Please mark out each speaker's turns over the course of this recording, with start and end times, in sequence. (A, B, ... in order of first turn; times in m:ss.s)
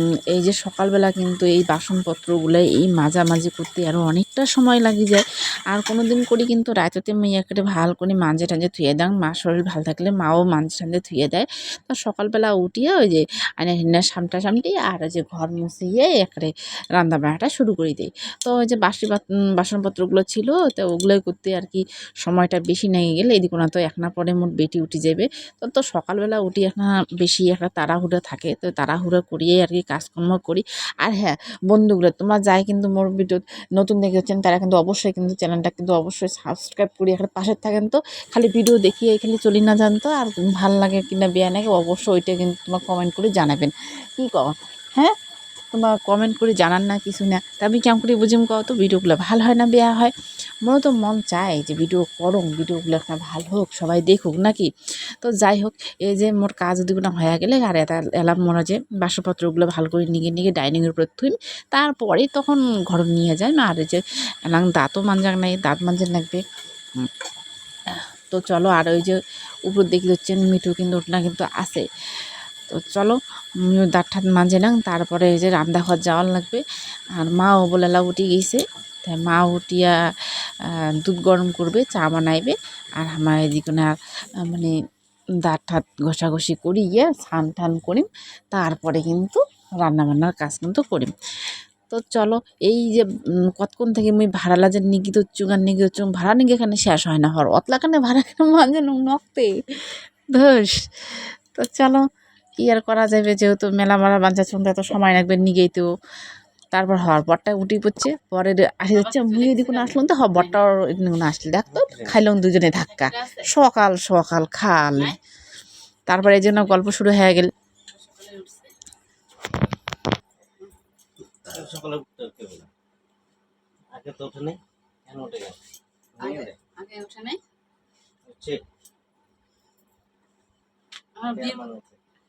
0:00.3-0:45.2 A
0:45.7-0:50.1 A
0:50.6-0:54.7 A
0:55.2-1:06.4 A
1:08.3-1:11.8 A
1:12.7-1:16.6 A
1:17.2-1:20.0 A
1:20.7-1:23.9 A
1:24.4-1:24.7 A
1:25.4-1:31.1 A
1:31.9-1:39.5 A
1:40.3-1:42.0 A
1:42.6-1:45.9 A
1:46.7-1:55.2 A
1:48.9-1:50.6 B
1:51.7-1:52.2 C
1:52.9-1:53.5 B
1:54.9-1:55.2 B
1:56.1-1:57.5 A
1:57.9-1:58.7 B
2:01.4-2:02.7 C
2:03.9-2:05.6 C
2:06.1-2:06.6 C
2:06.2-2:07.4 B
2:08.2-2:08.6 C
2:11.2-2:11.7 B
2:11.2-2:12.0 C